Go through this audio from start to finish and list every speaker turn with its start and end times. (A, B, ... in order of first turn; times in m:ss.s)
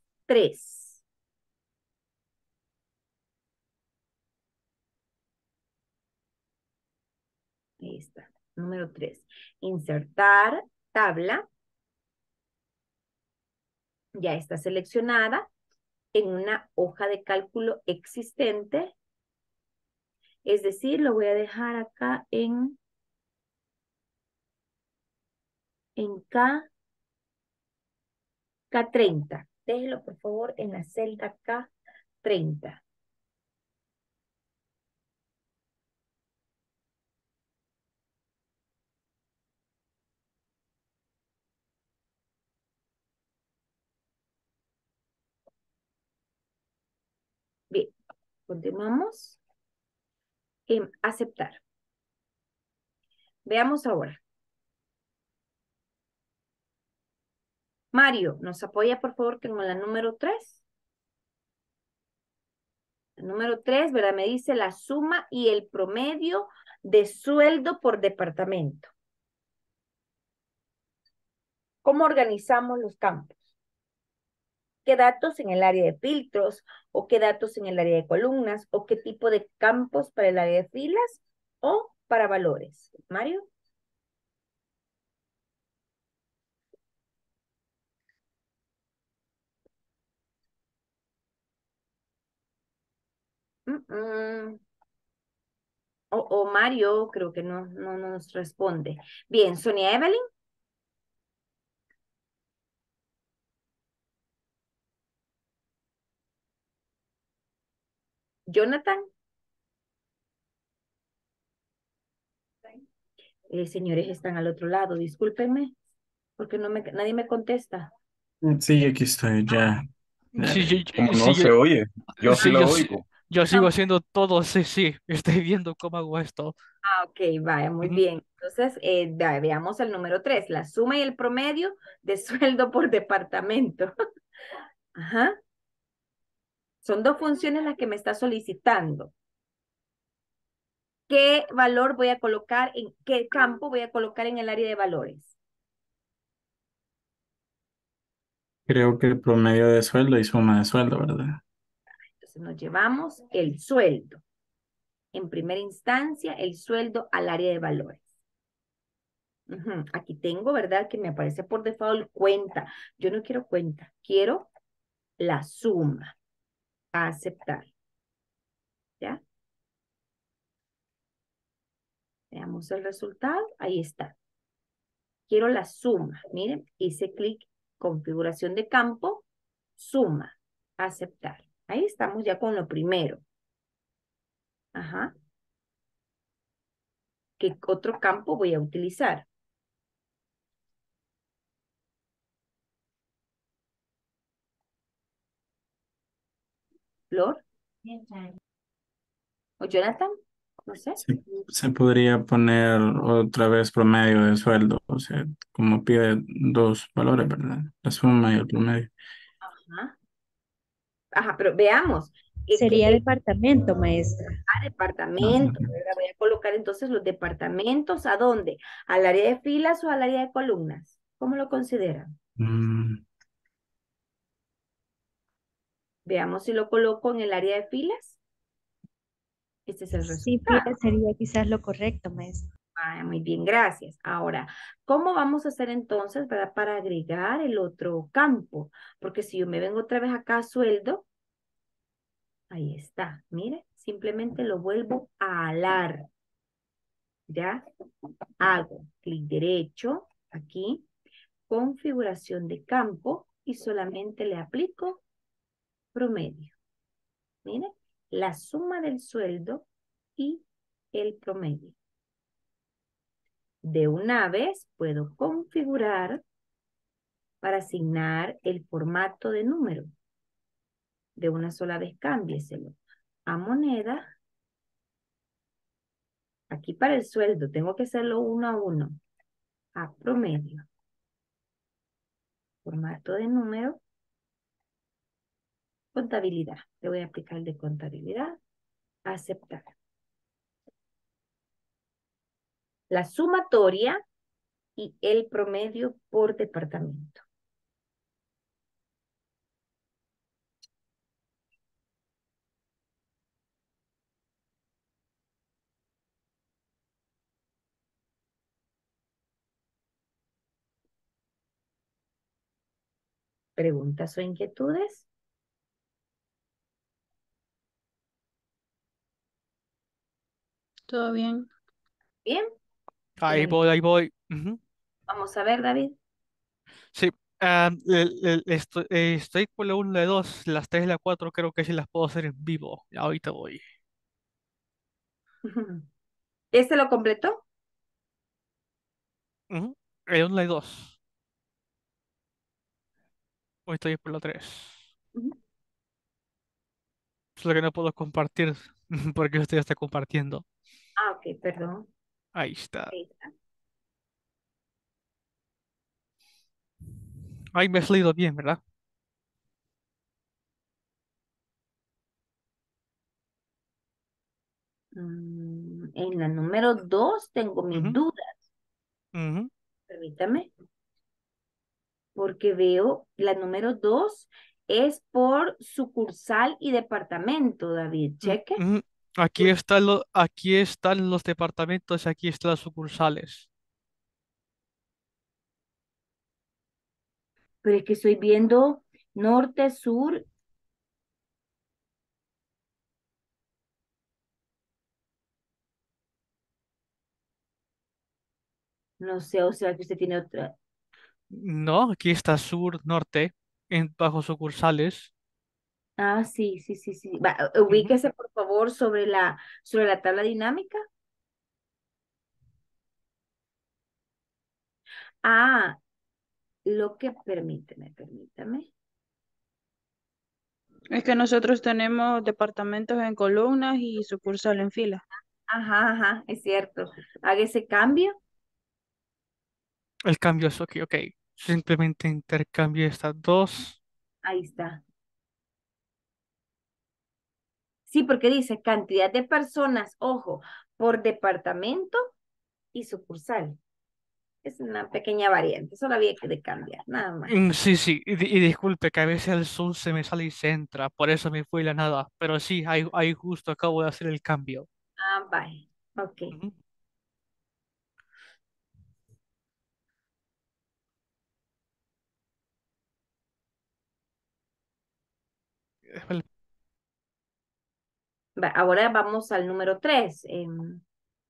0:00.3-0:01.0 A
0:07.8-0:11.5 A
0:14.2-0:15.5 A
0:16.1-0:18.9 A
0:20.4-0:22.8 A
0:26.0-0:26.7 A
0:28.7-0:31.7 A
0:32.2-0:32.8 A
0:48.5-0:49.4 A
0:50.7-0:51.6 A
0:53.4-0:54.2 A
0:57.9-1:00.6 A
1:03.2-1:08.9 A
1:11.8-1:13.4 A
1:14.8-1:23.5 A
1:33.7-1:34.6 A
1:36.1-1:40.2 A
1:48.5-1:49.0 A
1:53.5-1:55.7 A
1:56.4-1:57.9 A
1:58.4-2:00.8 B
2:00.5-2:01.6 C
2:01.0-2:03.1 D
2:02.3-2:06.6 C
2:06.8-2:13.9 A
2:15.0-2:15.4 A
2:16.8-2:19.1 A
2:21.1-2:25.4 A
2:28.7-2:31.4 B
2:32.2-2:34.2 A
2:35.1-2:38.0 A
2:39.5-2:44.5 A
2:45.2-2:46.2 A
2:46.9-2:47.7 A
2:52.3-2:54.2 A
2:55.3-2:59.2 A
2:59.8-3:03.2 A
3:04.8-3:05.1 A
3:07.4-3:09.3 A
3:17.1-3:17.4 A
3:19.6-3:20.1 A
3:20.7-3:21.0 A
3:21.0-3:28.9 B
3:29.4-3:30.0 A
3:31.1-3:33.0 A
3:32.5-3:34.4 E
3:34.5-3:42.1 A
3:35.2-3:35.7 B
3:42.4-3:43.0 B
3:46.1-3:48.2 A
3:49.7-3:50.7 A
3:50.1-3:52.5 E
3:52.8-4:01.0 A
4:02.5-4:06.1 A
4:07.3-4:07.6 A
4:08.4-4:10.8 A
4:11.5-4:15.0 A
4:15.9-4:16.6 A
4:17.4-4:19.6 A
4:20.2-4:21.8 A
4:23.6-4:26.2 A
4:27.4-4:29.9 A
4:31.2-4:34.1 A
4:36.5-4:39.0 A
4:39.8-4:40.7 A
4:42.6-4:43.8 A
4:46.0-4:48.4 A
4:49.1-4:49.7 A
4:52.9-4:54.0 A
4:54.8-4:57.2 A
5:13.6-5:15.1 A
5:20.9-5:21.5 F
5:23.2-5:24.6 C
5:23.3-5:23.6 A
5:25.1-5:26.0 A
5:27.0-5:33.6 C
5:35.4-5:35.9 A
5:36.5-5:37.4 A
5:39.5-5:41.0 C
5:43.7-5:44.8 C
5:47.4-5:50.4 C
5:51.0-5:51.9 A
5:52.4-5:53.0 C
5:52.9-5:53.3 A
5:57.5-5:58.6 C
6:04.9-6:08.4 A
6:07.7-6:08.0 C
6:09.2-6:09.5 C
6:09.9-6:10.5 A
6:12.2-6:18.6 A
6:18.2-6:23.5 C
6:27.6-6:30.3 A
6:39.0-6:40.5 A
6:41.3-6:45.1 C
6:46.0-6:50.8 A
6:47.7-6:47.9 C
6:55.2-6:55.8 A
6:56.7-6:58.7 A
7:00.9-7:05.0 F
7:05.5-7:08.2 A
7:10.1-7:13.8 C
7:14.2-7:14.8 A
7:17.9-7:22.0 A
7:22.7-7:23.6 A
7:24.4-7:27.3 A
7:27.3-7:34.7 C
7:35.0-7:36.3 A
7:45.9-7:46.2 C
7:48.4-7:50.8 A